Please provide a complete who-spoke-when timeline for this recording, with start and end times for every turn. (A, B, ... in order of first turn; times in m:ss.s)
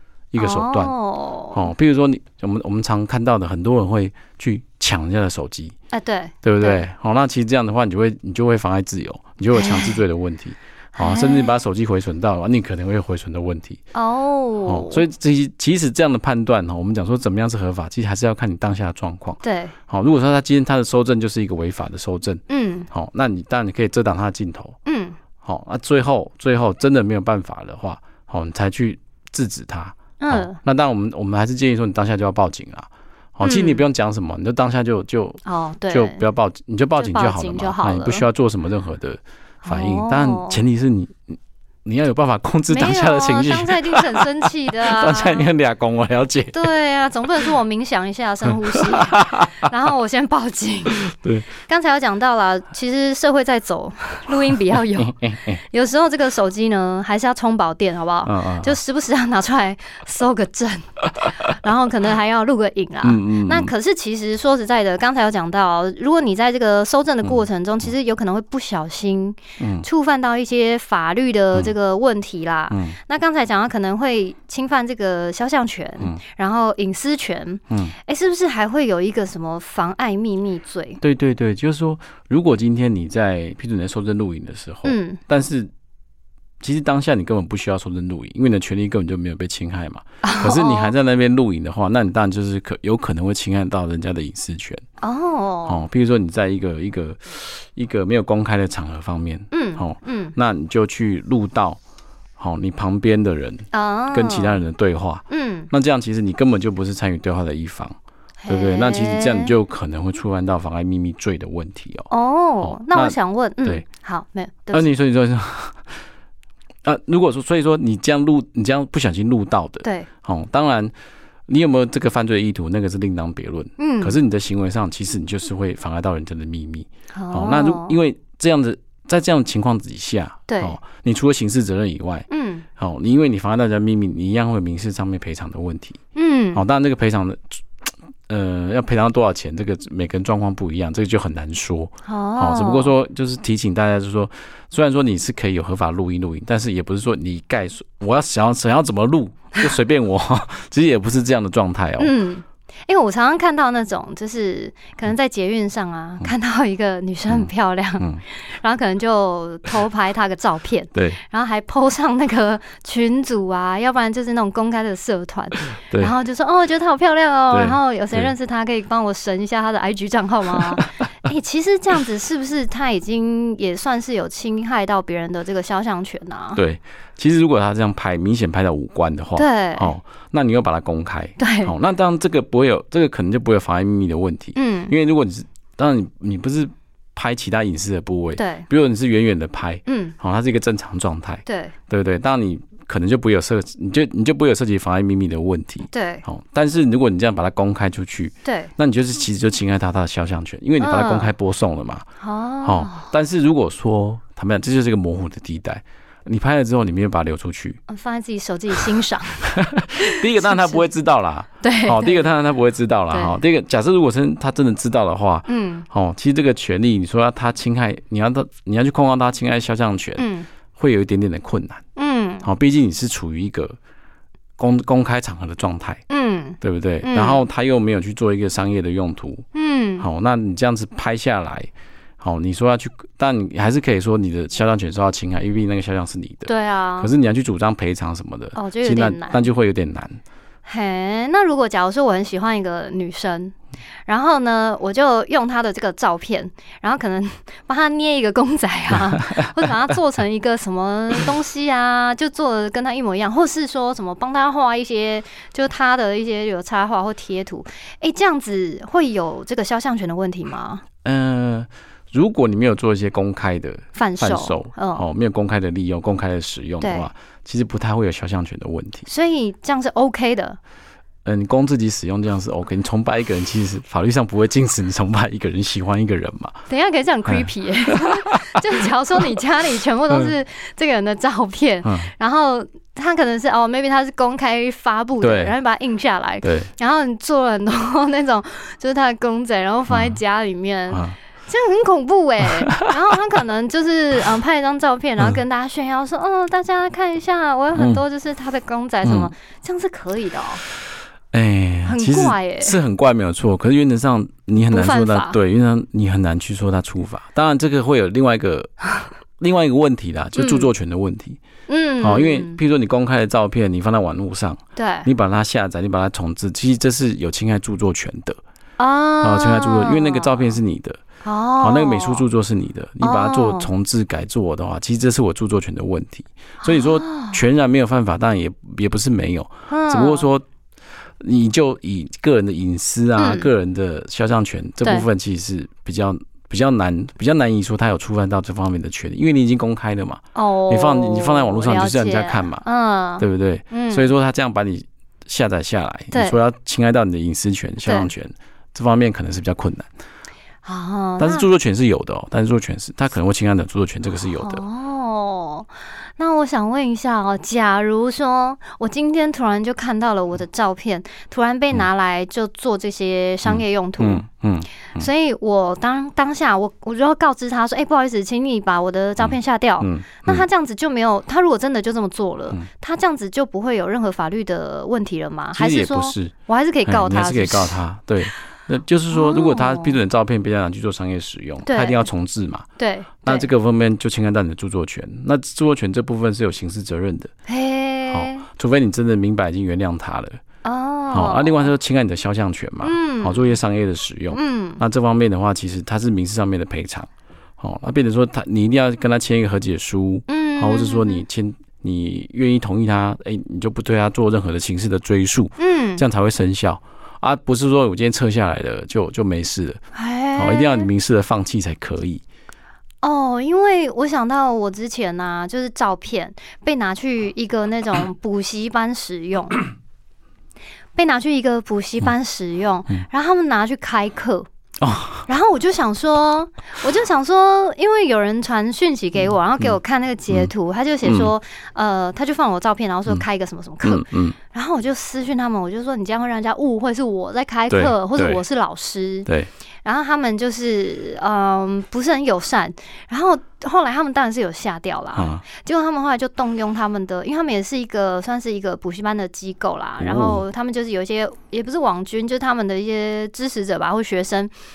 0:00.3-0:00.9 A
0:00.4-0:01.7 B
0:01.5-0:05.7 A
0:05.9-0:06.8 B
0:06.4-0:13.8 A
0:09.5-0:10.0 B
0:11.0-0:11.5 B
0:13.9-0:15.0 B
0:14.7-0:24.8 A
0:19.4-0:19.7 B
0:22.5-0:22.9 B
0:24.9-0:25.2 B
0:25.4-0:46.7 A
0:30.2-0:30.6 B
0:33.4-0:33.8 B
0:35.4-0:36.2 B
0:37.0-0:38.2 B
0:39.6-0:40.6 B
0:42.7-0:45.5 B
0:46.5-1:21.0 B
0:48.5-0:49.5 A
0:51.0-0:51.6 A
0:55.0-0:55.6 A
0:58.2-0:58.8 A
1:03.0-1:03.7 A
1:07.2-1:07.9 A
1:09.6-1:09.9 A
1:12.7-1:13.0 A
1:17.7-1:18.0 A
1:21.0-1:25.7 A
1:24.8-1:25.2 B
1:26.6-1:34.8 A
1:30.2-1:30.9 B
1:35.0-1:35.8 B
1:35.7-1:41.8 A
1:39.5-1:40.4 B
1:42.4-1:48.0 A
1:43.7-1:44.6 B
1:45.3-1:45.7 B
1:48.4-1:49.5 B
1:48.5-1:52.1 A
1:52.1-1:54.9 B
1:52.6-1:53.8 A
1:54.7-1:55.8 A
1:56.8-2:00.9 A
1:59.8-2:00.1 B
2:01.5-2:16.0 A
2:03.8-2:04.2 B
2:07.1-2:08.0 B
2:10.5-2:10.8 B
2:12.3-2:12.6 B
2:16.2-2:16.6 B
2:16.5-2:32.2 A
2:22.1-2:22.9 B
2:32.0-2:56.6 B
2:37.3-2:38.2 A
2:41.0-2:41.2 A
2:47.5-2:48.3 A
2:56.6-3:22.0 A
2:59.4-2:59.9 B
3:01.4-3:01.7 B
3:04.6-3:05.0 B
3:08.4-3:08.7 B
3:09.9-3:10.2 B
3:11.5-3:11.7 B
3:15.9-3:16.2 B
3:18.4-3:18.7 B
3:20.8-3:21.3 B
3:22.2-3:23.1 B
3:22.6-3:27.8 A
3:27.9-3:30.8 B
3:29.4-3:41.8 A
3:31.6-3:32.3 B
3:33.1-3:33.4 B
3:35.5-3:35.9 B
3:40.2-3:40.5 B
3:42.0-3:42.5 B
3:42.4-3:43.8 A
3:44.6-3:46.0 A
3:46.1-3:47.4 B
3:46.6-3:49.4 A
3:49.5-3:50.1 B
3:50.0-3:51.7 A
3:52.2-4:00.2 A
3:56.5-3:57.1 B
3:58.6-3:59.5 B
4:00.6-4:03.6 B
4:04.1-4:20.8 B
4:09.1-4:09.7 A
4:21.0-4:29.1 A
4:24.0-4:25.1 B
4:26.8-4:27.1 B
4:29.1-4:30.6 B
4:31.2-4:36.6 A
4:36.7-5:00.6 B
4:37.3-4:38.3 A
4:41.8-4:42.1 A
4:45.2-4:45.6 A
4:46.4-4:46.7 A
4:49.9-4:50.2 A
4:50.9-4:51.2 A
4:57.7-4:58.0 A
4:59.0-4:59.3 A
5:01.3-5:08.7 A
5:01.9-5:02.8 B
5:04.7-5:05.4 B
5:09.4-5:11.4 A
5:10.4-5:10.7 B
5:11.7-5:12.6 B
5:12.0-5:18.4 A
5:14.8-5:15.1 B
5:18.8-5:20.6 B
5:19.2-5:21.0 A
5:21.2-5:22.2 B
5:21.6-5:30.4 A
5:23.0-5:23.7 B
5:26.6-5:27.4 B
5:29.7-5:30.3 B
5:31.2-5:42.6 A
5:33.2-5:33.5 B
5:40.4-5:44.1 B
5:43.2-5:49.9 A
5:46.1-5:46.4 B
5:47.8-5:48.1 B
5:50.6-5:51.5 B
5:51.2-5:54.6 A
5:54.4-6:04.2 B
6:03.4-6:05.1 A
6:04.9-6:17.8 B
6:09.2-6:10.5 A
6:15.5-6:16.3 A
6:16.9-6:22.6 A
6:19.1-6:20.0 B
6:21.7-6:22.0 B
6:22.8-6:23.5 B
6:23.2-6:27.3 A
6:27.5-6:28.5 B
6:28.1-6:30.4 A
6:30.6-6:31.7 B
6:31.1-6:37.1 A
6:32.8-6:33.6 B
6:34.3-6:34.8 B
6:37.6-6:49.8 A
6:40.3-6:41.2 B
6:45.6-6:46.0 B
6:49.9-6:50.9 B
6:50.4-6:52.2 A
6:53.0-6:59.6 B
7:01.0-7:04.5 B
7:04.8-7:05.3 A
7:05.3-7:19.3 B
7:11.0-7:11.3 A
7:13.8-7:14.4 A
7:17.7-7:18.4 A
7:19.3-7:19.5 A
7:19.8-7:34.5 B
7:25.2-7:25.5 A
7:30.0-7:30.4 A